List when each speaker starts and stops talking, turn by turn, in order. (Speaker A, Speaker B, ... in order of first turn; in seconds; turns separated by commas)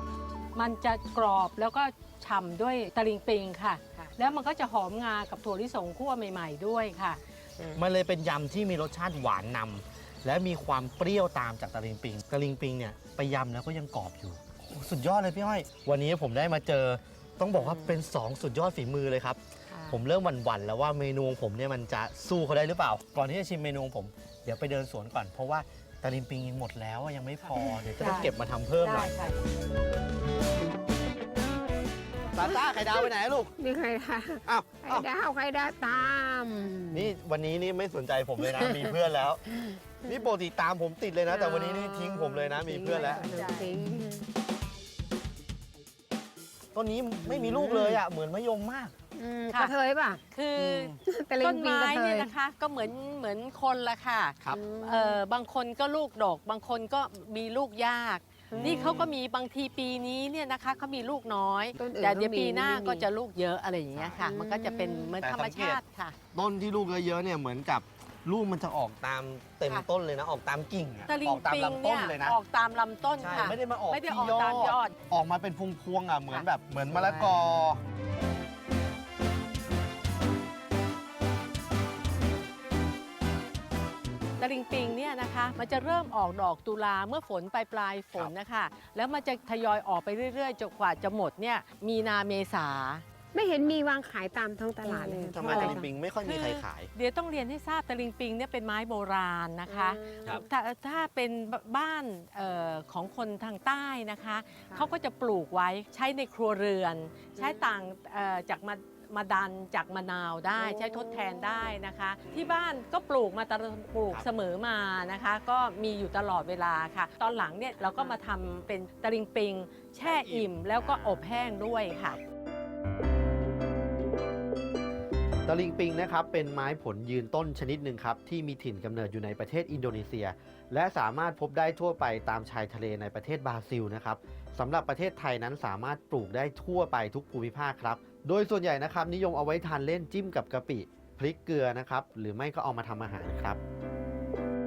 Speaker A: 0.6-7.2, Speaker B: 7.8-29.1, Speaker C: 17.6-18.0, Speaker C: 19.7-20.0, Speaker A: 28.0-29.4, Speaker B: 32.3-33.5, Speaker C: 33.6-37.1, Speaker B: 34.5-35.1, Speaker B: 36.9-39.4, Speaker C: 38.4-39.0, Speaker C: 39.5-40.2, Speaker B: 40.0-43.5, Speaker C: 41.3-44.3, Speaker A: 42.8-43.8, Speaker B: 46.8-49.0, Speaker C: 47.2-48.0, Speaker C: 49.1-50.2, Speaker A: 50.3-66.2, Speaker B: 50.5-51.0, Speaker C: 51.0-52.3, Speaker C: 54.5-55.2, Speaker C: 58.5-59.1, Speaker B: 58.5-59.1, Speaker C: 61.8-63.1, Speaker B: 63.9-64.3, Speaker C: 64.2-65.1, Speaker B: 65.2-65.8, Speaker B: 66.3-72.4, Speaker A: 71.1-74.9, Speaker B: 73.2-77.8, Speaker C: 76.9-77.4, Speaker A: 84.4-93.0, Speaker C: 93.3-95.8, Speaker A: 94.8-122.2, Speaker B: 95.3-96.9, Speaker C: 99.7-100.5, Speaker C: 107.4-107.7, Speaker C: 110.6-111.7, Speaker B: 120.0-121.2, Speaker B: 125.5-143.6